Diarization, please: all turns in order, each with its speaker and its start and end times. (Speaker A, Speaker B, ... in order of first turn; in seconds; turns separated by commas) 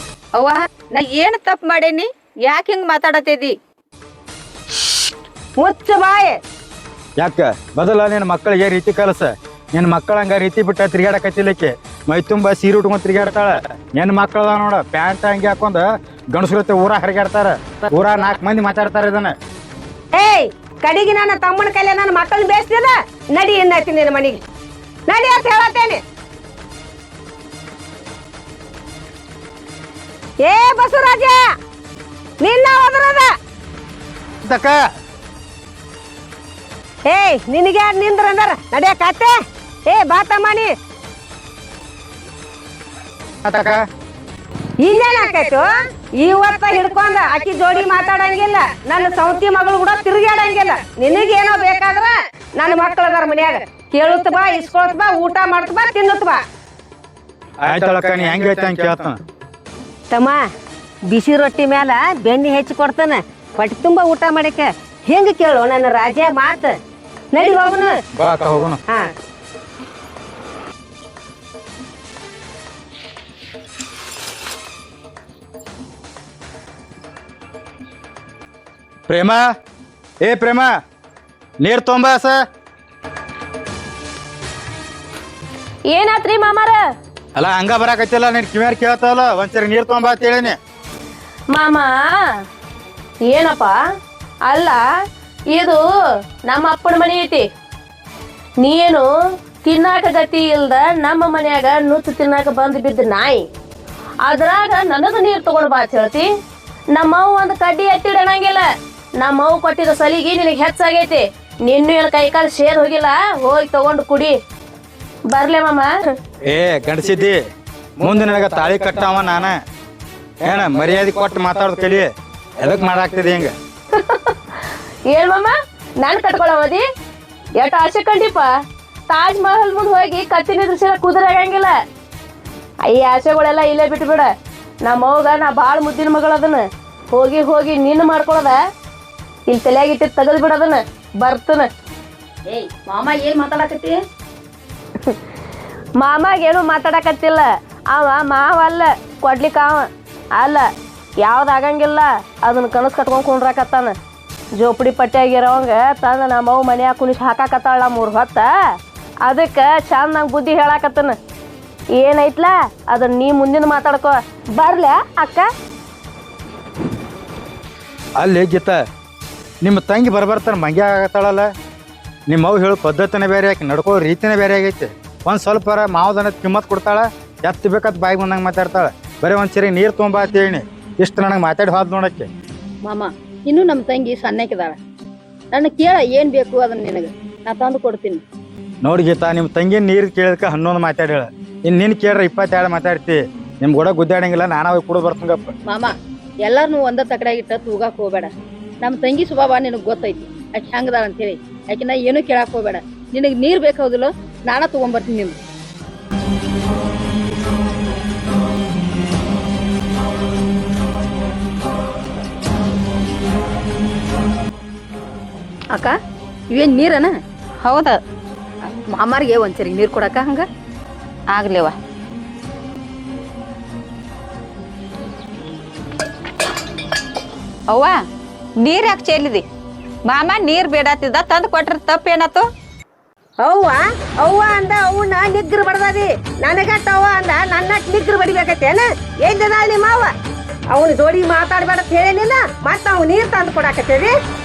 Speaker A: 0.3-3.5, Speaker B: 5.6-6.4, Speaker C: 7.2-19.4, Speaker B: 20.1-24.4, Speaker B: 25.1-26.0, Speaker B: 30.4-31.4, Speaker B: 32.4-33.3, Speaker C: 34.5-34.8, Speaker B: 37.0-39.4, Speaker B: 39.9-40.7, Speaker C: 43.4-43.8, Speaker B: 44.8-56.4, Speaker C: 57.6-59.2, Speaker B: 60.1-60.4, Speaker B: 61.1-66.8, Speaker B: 67.3-68.0, Speaker C: 68.2-68.8, Speaker C: 79.1-79.4, Speaker C: 80.2-80.7, Speaker C: 81.6-82.4, Speaker D: 85.9-86.8, Speaker C: 87.4-90.6, Speaker D: 91.5-92.2, Speaker D: 93.3-93.8, Speaker D: 94.5-94.8, Speaker D: 95.5-95.8, Speaker D: 96.5-97.5, Speaker D: 98.6-99.1, Speaker D: 99.6-103.5, Speaker D: 104.2-106.3, Speaker D: 106.9-108.7, Speaker D: 109.2-114.4, Speaker D: 115.3-115.9, Speaker C: 116.5-117.4, Speaker C: 118.0-119.6, Speaker C: 120.4-123.5, Speaker D: 123.9-126.8, Speaker D: 127.6-128.5, Speaker D: 129.1-131.8, Speaker D: 132.8-134.3, Speaker D: 134.8-138.6, Speaker D: 139.5-141.7, Speaker E: 142.5-144.0, Speaker D: 146.0-150.7, Speaker D: 151.2-153.9, Speaker D: 154.6-158.5, Speaker D: 159.2-161.2, Speaker D: 161.9-165.5, Speaker C: 168.2-168.8, Speaker C: 169.6-171.5, Speaker C: 172.3-182.3, Speaker E: 182.8-184.8, Speaker E: 185.5-188.2, Speaker C: 188.8-195.6, Speaker E: 195.7-195.9, Speaker E: 196.4-198.3, Speaker E: 198.8-205.4, Speaker E: 216.5-217.2, Speaker A: 217.6-218.0, Speaker E: 218.6-220.5, Speaker A: 221.3-221.8, Speaker A: 227.7-228.0, Speaker A: 228.6-229.4, Speaker A: 230.1-232.4, Speaker B: 233.4-240.1, Speaker B: 240.7-244.1